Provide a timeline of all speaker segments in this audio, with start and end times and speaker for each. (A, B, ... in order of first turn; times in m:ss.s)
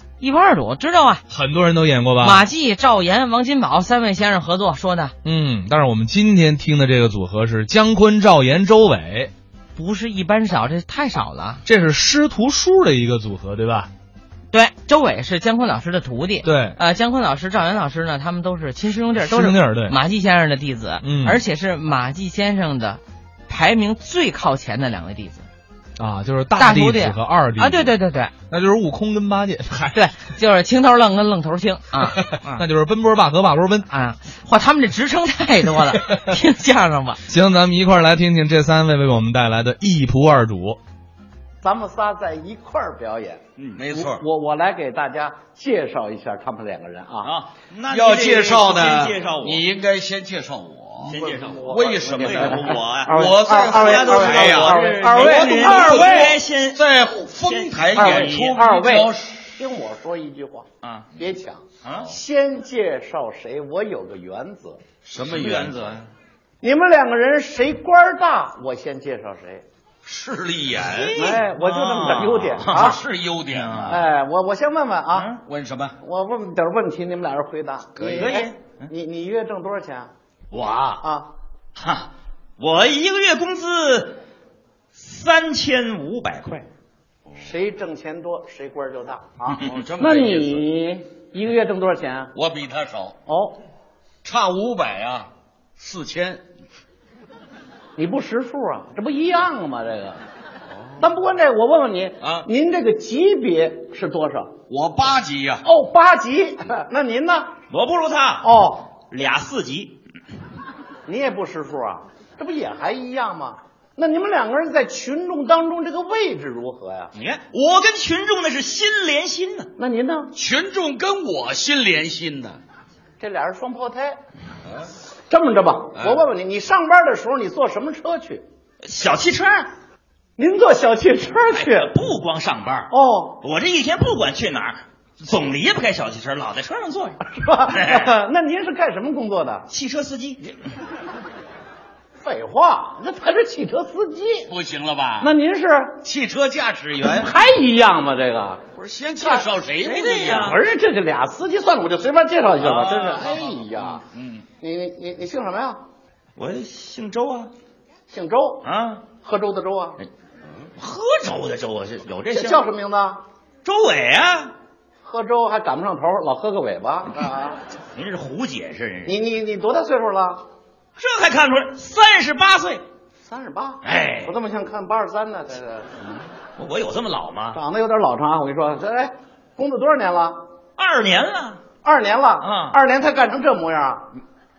0:00.2-0:01.2 A
0:01.3-0:02.4 B
0:02.2-0:05.1 A
0:05.2-0:09.3 B
0:09.8-0:11.6 A
0:11.6-0:13.9 B
0:14.5-0:25.4 A
0:16.4-0:16.8 B
0:19.2-0:20.0 B
0:21.0-0:21.4 B
0:26.0-0:27.9 B
0:26.6-0:28.3 A
0:28.4-0:30.1 B
0:29.9-0:32.6 A
0:32.0-0:33.8 B
0:33.9-0:37.2 A
0:37.3-0:40.8 B
0:41.6-0:43.4 C
0:43.8-0:44.2 D
0:43.9-0:47.3 C
0:47.2-0:49.6 E
0:47.9-0:59.4 D
0:51.0-0:56.8 E
0:51.1-0:56.3 C
0:57.4-0:58.6 E
0:57.9-1:04.8 C
1:00.8-1:01.1 E
1:01.8-1:02.1 E
1:05.0-1:05.9 D
1:05.2-1:06.1 E
1:06.6-1:09.6 C
1:10.0-1:11.4 D
1:10.8-1:12.9 E
1:11.1-1:13.0 C
1:12.7-1:14.0 D
1:13.5-1:14.0 E
1:13.9-1:15.3 C
1:15.1-1:15.4 E
1:15.4-1:16.0 D
1:16.0-1:20.1 C
1:18.0-1:18.4 D
1:18.0-1:18.8 E
1:20.5-1:21.0 E
1:21.0-1:21.3 C
1:21.7-1:24.2 E
1:24.9-1:26.6 E
1:27.4-1:32.3 C
1:29.5-1:29.8 E
1:29.6-1:30.6 D
1:32.3-1:33.2 D
1:33.2-1:33.6 C
1:34.2-1:36.4 D
1:38.0-1:40.2 C
1:41.0-1:44.5 C
1:42.2-1:42.5 D
1:44.7-1:45.6 D
1:45.6-1:47.6 C
1:47.7-1:48.5 E
1:48.4-1:48.9 C
1:49.1-1:50.0 E
1:51.0-1:57.1 C
1:57.1-1:59.7 E
1:59.8-2:00.3 C
2:00.3-2:02.6 D
2:03.2-2:04.2 C
2:05.3-2:08.4 C
2:05.9-2:06.2 D
2:08.8-2:09.7 E
2:10.4-2:11.9 C
2:11.5-2:18.1 E
2:12.9-2:13.4 C
2:17.2-2:19.7 C
2:19.7-2:20.6 E
2:22.2-2:24.5 C
2:24.5-2:25.3 D
2:25.2-2:26.0 C
2:26.0-2:27.3 D
2:27.0-2:28.6 C
2:28.7-2:30.5 D
2:29.2-2:29.5 C
2:29.8-2:30.6 E
2:30.4-2:34.0 C
2:32.6-2:34.0 D
2:34.6-2:35.8 C
2:36.4-2:37.5 E
2:38.1-2:38.6 C
2:38.6-2:39.0 E
2:39.2-2:40.0 C
2:40.8-2:42.6 E
2:42.3-2:43.2 C
2:43.6-2:44.5 E
2:45.0-2:47.6 C
2:47.9-2:49.2 E
2:49.0-2:50.4 C
2:51.0-2:52.8 E
2:53.2-2:56.1 C
2:53.8-2:54.3 E
2:56.6-2:57.6 E
2:57.5-3:00.4 C
3:00.8-3:01.6 E
3:01.8-3:04.1 C
3:02.4-3:02.8 E